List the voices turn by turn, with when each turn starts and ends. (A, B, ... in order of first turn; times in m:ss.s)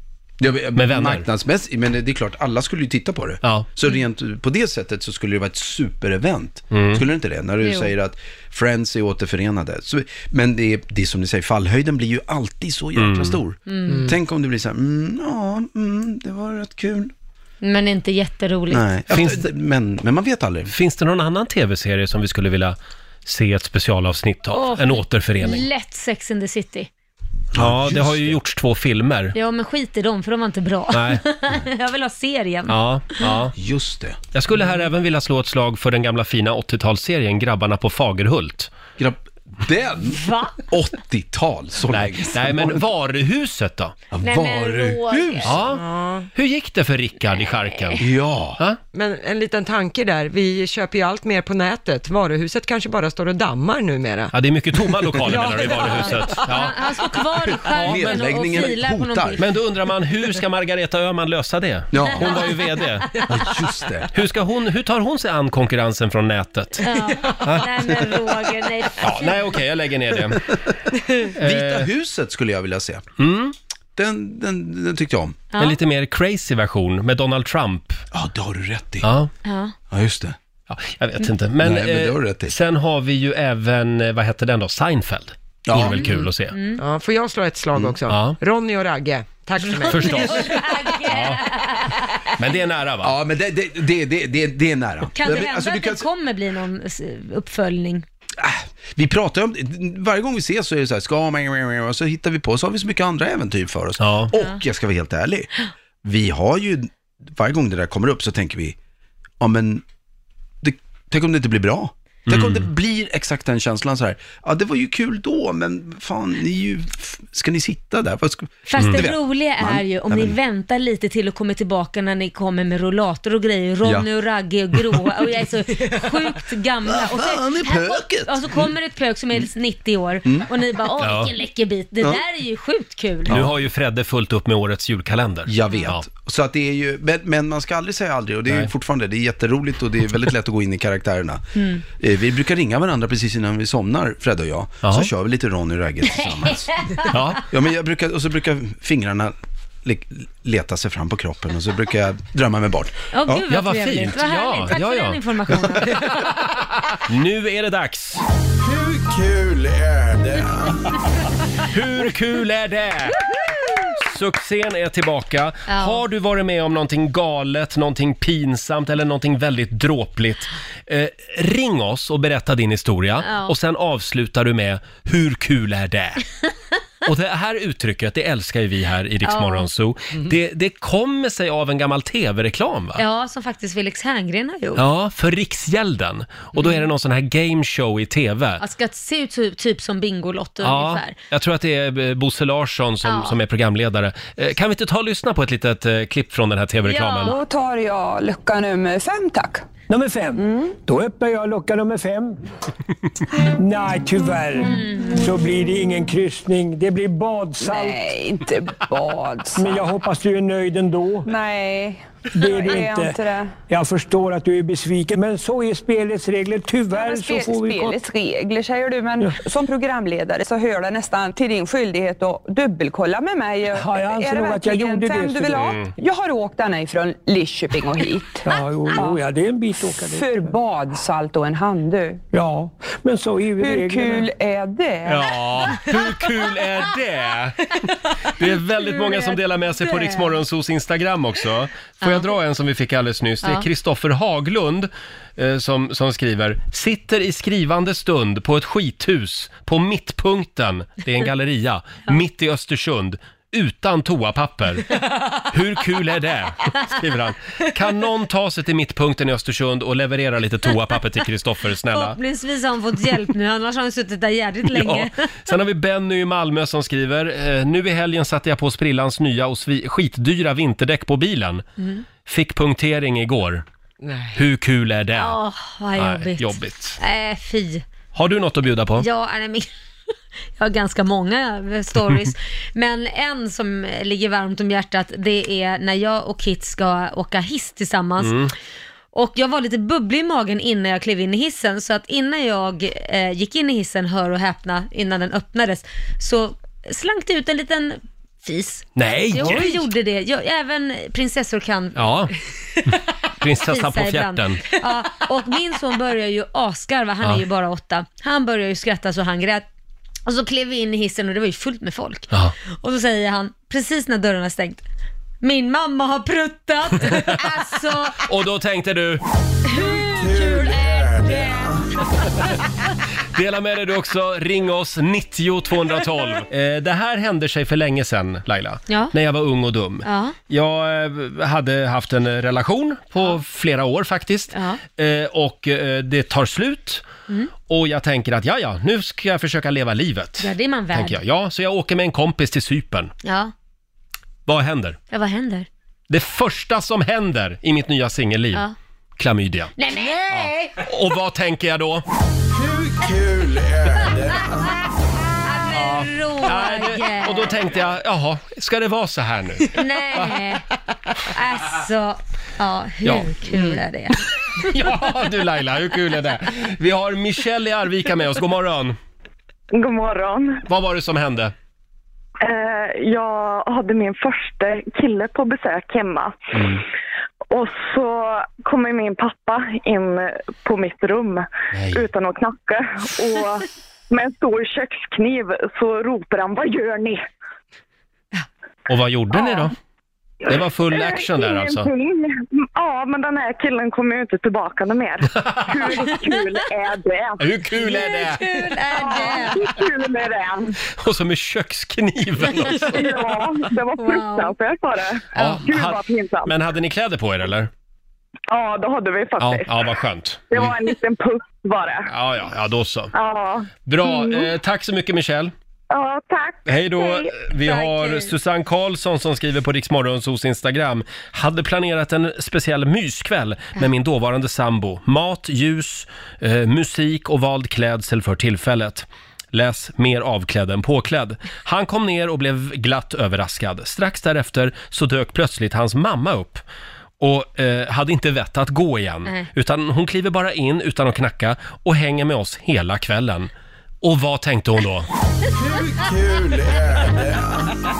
0:00.4-0:17.1 A
0:00.7-0:01.2 B
0:06.7-0:07.0 B
0:07.6-0:07.9 C
0:13.0-0:13.4 B
0:13.7-0:14.1 C
0:17.6-0:18.8 C
0:18.7-0:20.7 A
0:19.1-0:19.5 B
0:20.7-0:25.6 B
0:24.5-0:26.9 C
0:27.5-0:28.4 A
0:27.5-0:29.3 B
0:29.3-0:33.3 C
0:30.9-0:31.2 B
0:32.7-0:33.5 B
0:33.6-0:34.2 A
0:34.3-0:38.7 B
0:39.0-0:42.8 A
0:40.1-0:40.6 C
0:41.9-0:44.0 B
0:44.1-0:45.6 A
0:44.2-0:45.6 C
0:45.4-0:48.0 B
0:45.7-0:46.3 D
0:47.7-0:48.0 C
0:48.0-0:48.6 A
0:48.9-0:54.3 D
0:54.3-0:56.7 B
0:55.1-0:56.5 D
0:56.3-0:59.5 C
0:57.6-0:58.3 B
0:57.7-0:59.4 A
0:59.4-1:03.2 B
1:01.9-1:02.5 A
1:02.0-1:02.6 C
1:03.2-1:04.1 A
1:04.1-1:06.9 B
1:06.8-1:09.5 C
1:07.4-1:07.7 B
1:09.0-1:10.4 B
1:11.4-1:13.0 A
1:11.4-1:11.9 B
1:13.2-1:13.5 B
1:14.0-1:15.4 A
1:15.5-1:15.8 C
1:15.6-1:18.0 B
1:18.1-1:19.1 A
1:19.0-1:19.3 B
1:19.4-1:19.7 C
1:19.9-1:20.4 A
1:20.7-1:26.6 B
1:21.6-1:22.5 A
1:25.6-1:26.1 A
1:25.9-1:26.8 C
1:26.8-1:30.4 D
1:28.1-1:28.4 B
1:29.8-1:30.5 B
1:29.9-1:32.2 C
1:31.1-1:31.4 B
1:32.4-1:33.1 B
1:33.0-1:36.1 A
1:35.1-1:38.0 C
1:38.4-1:45.5 A
1:44.0-1:44.3 B
1:46.0-1:48.8 A
1:49.4-1:49.8 A
1:50.6-2:00.4 A
1:52.3-1:52.7 B
1:58.7-2:13.4 C
1:58.8-1:59.0 B
2:06.9-2:08.7 A
2:11.0-2:11.3 B
2:13.2-2:13.5 A
2:13.3-2:16.0 B
2:15.5-2:26.9 A
2:24.8-2:25.1 B
2:26.3-2:27.1 C
2:27.1-2:27.4 B
2:27.4-2:33.4 A
2:33.1-2:36.2 C
2:33.5-2:38.2 B
2:39.0-2:40.5 A
2:41.6-2:56.2 B
2:45.7-2:46.0 C
2:53.2-2:53.5 C
2:57.0-3:03.0 B
2:59.2-2:59.7 C
3:03.0-3:04.8 C
3:04.8-3:08.6 B
3:08.6-3:11.1 C
3:10.6-3:17.4 B
3:13.0-3:13.4 C
3:16.8-3:17.4 C
3:17.2-3:19.6 E
3:19.9-3:22.4 F
3:23.5-3:27.9 F
3:24.7-3:25.1 C
3:27.6-3:30.0 E
3:29.5-3:31.2 F
3:31.2-3:33.6 E
3:32.3-3:33.1 F
3:33.7-3:37.9 F
3:36.9-3:49.3 E
3:43.7-3:45.6 F
3:45.6-3:45.9 B
3:48.4-3:50.2 F
3:49.8-3:52.2 E
3:52.3-3:54.2 F
3:53.6-3:55.4 E
3:55.1-3:57.7 B
3:58.3-4:22.2 B
3:58.8-4:00.4 C
4:02.0-4:02.3 C
4:21.9-4:25.1 C
4:24.7-4:31.6 B
4:31.8-4:32.0 C
4:32.2-4:33.6 B
4:34.0-4:34.4 D
4:34.3-4:35.4 B
4:35.1-4:37.8 C
4:36.0-4:37.0 B
4:38.1-4:39.0 B
4:39.0-4:39.7 C
4:40.6-4:48.5 C
4:48.2-4:48.5 B
4:49.1-5:02.1 C
4:59.0-4:59.8 B
5:01.9-5:02.3 B
5:02.8-5:04.6 B
5:03.6-5:09.6 C
5:10.2-5:14.8 C
5:15.4-5:18.2 C
5:18.2-5:19.2 B
5:19.6-5:22.1 C
5:23.3-5:37.0 B
5:28.9-5:29.1 C
5:30.0-5:30.4 C
5:34.5-5:34.8 C
5:37.6-5:43.1 B
5:40.4-5:41.2 C
5:43.2-5:43.5 C
5:44.4-5:45.0 B
5:45.1-5:45.7 C
5:46.1-5:48.7 B
5:49.2-5:49.8 B
5:49.8-5:50.8 C
5:50.3-5:52.0 B
5:53.0-5:54.7 C
5:55.4-5:57.6 C
5:55.7-6:00.4 B
5:59.7-6:00.6 C
6:01.2-6:04.2 C
6:03.0-6:03.3 B
6:04.6-6:09.0 B
6:09.7-6:10.6 G
6:10.6-6:11.5 B
6:12.4-6:16.8 G
6:17.5-6:27.2 G
6:21.7-6:22.0 B
6:28.9-6:29.7 B
6:29.4-6:29.7 G
6:30.5-6:31.9 B
6:30.5-6:37.5 G
6:35.4-6:36.1 B
6:37.4-6:39.6 B
6:37.8-6:39.6 C
6:38.9-6:40.8 G
6:40.9-6:43.1 B
6:42.6-6:46.5 G
6:44.0-6:44.5 C
6:45.3-6:47.7 B
6:45.4-6:45.6 C
6:48.5-6:52.1 G
6:49.4-6:50.8 B
6:52.0-6:53.1 B
6:53.1-6:54.5 G
6:53.8-6:55.5 B
6:55.9-6:57.4 G
6:56.6-7:16.6 B
6:57.6-6:58.3 C
7:17.2-7:23.5 B
7:24.0-7:25.1 B